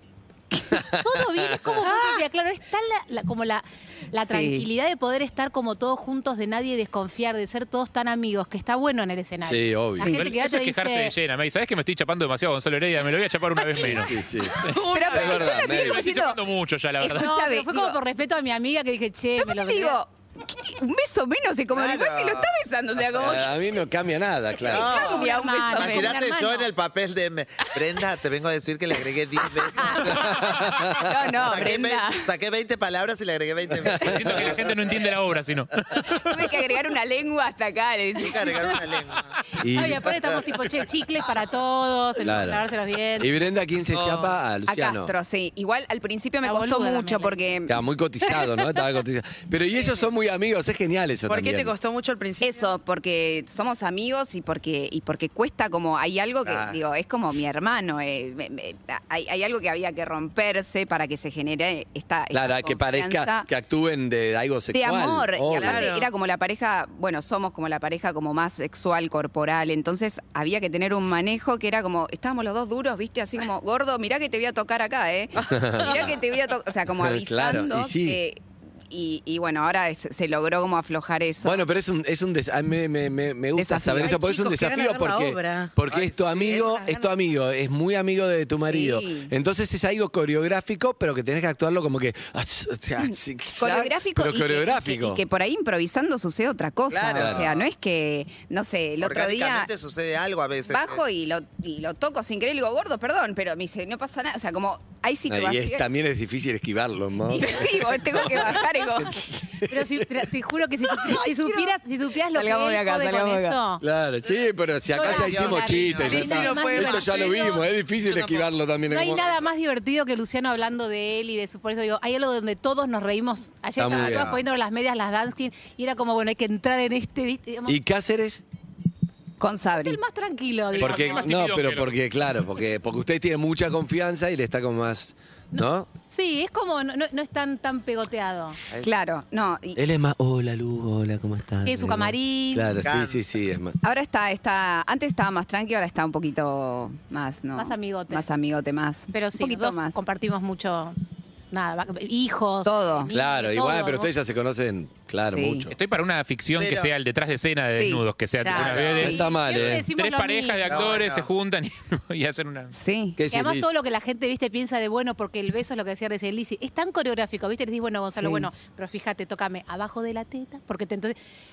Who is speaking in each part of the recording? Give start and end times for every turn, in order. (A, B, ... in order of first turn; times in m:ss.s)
0:00.7-0:01.8 A
0:00.7-0:11.1 B
0:04.2-0:04.7 C
0:09.4-0:10.1 A
0:10.0-0:17.3 D
0:13.8-0:16.0 A
0:14.7-0:16.4 C
0:14.8-0:15.4 E
0:17.0-0:18.0 C
0:17.1-0:20.0 B
0:19.4-0:23.7 C
0:21.7-0:22.6 F
0:23.2-0:24.9 A
0:24.6-0:30.6 F
0:24.7-0:26.2 C
0:24.8-0:26.7 B
0:29.6-0:32.3 C
0:30.0-0:31.1 A
0:31.4-0:35.1 F
0:33.8-0:34.5 A
0:34.0-0:36.0 D
0:36.1-0:38.8 C
0:38.2-0:39.4 F
0:39.6-0:40.3 A
0:39.7-0:43.3 B
0:42.2-0:45.1 A
0:43.9-0:44.4 E
0:44.7-0:47.8 C
0:46.4-0:47.4 B
0:47.7-0:51.7 A
0:51.3-0:52.8 E
0:52.4-1:03.5 C
0:56.4-0:56.8 F
1:02.3-1:05.9 A
1:04.7-1:21.6 C
1:05.5-1:06.1 E
1:15.4-1:16.2 E
1:15.5-1:16.1 A
1:17.0-1:18.2 A
1:21.4-1:35.2 A
1:23.6-1:24.2 C
1:24.0-1:25.8 E
1:25.9-1:26.7 F
1:26.4-1:27.1 E
1:28.6-1:29.3 C
1:33.6-1:39.7 C
1:36.9-1:37.7 F
1:37.2-1:37.5 A
1:39.0-1:41.0 F
1:40.7-1:45.8 C
1:45.3-1:50.2 A
1:47.3-1:49.2 C
1:49.6-1:53.8 B
1:51.0-1:51.7 C
1:52.2-1:53.6 C
1:53.8-1:59.4 A
1:54.9-1:57.6 B
1:54.9-1:56.6 F
1:56.0-1:58.5 E
1:58.9-2:07.8 B
2:03.8-2:04.4 A
2:03.8-2:04.4 F
2:07.7-2:08.4 A
2:09.4-2:10.0 C
2:09.8-2:11.3 B
2:10.7-2:12.0 D
2:10.8-2:15.9 A
2:15.5-2:18.6 B
2:18.8-2:19.8 C
2:19.8-2:23.8 A
2:21.6-2:22.7 B
2:22.8-2:23.2 F
2:23.8-2:30.0 C
2:27.6-2:28.2 B
2:29.1-2:31.0 B
2:31.5-2:34.1 B
2:32.6-2:33.1 C
2:33.1-2:35.7 A
2:35.3-2:35.7 C
2:35.7-2:42.7 D
2:36.6-2:36.9 F
2:37.7-2:38.0 C
2:38.4-2:38.8 E
2:38.4-2:39.2 F
2:39.0-2:39.9 A
2:39.0-2:40.9 B
2:40.7-2:41.3 F
2:42.7-2:43.2 C
2:43.2-2:43.7 A
2:43.3-2:51.2 B
2:48.2-2:48.5 C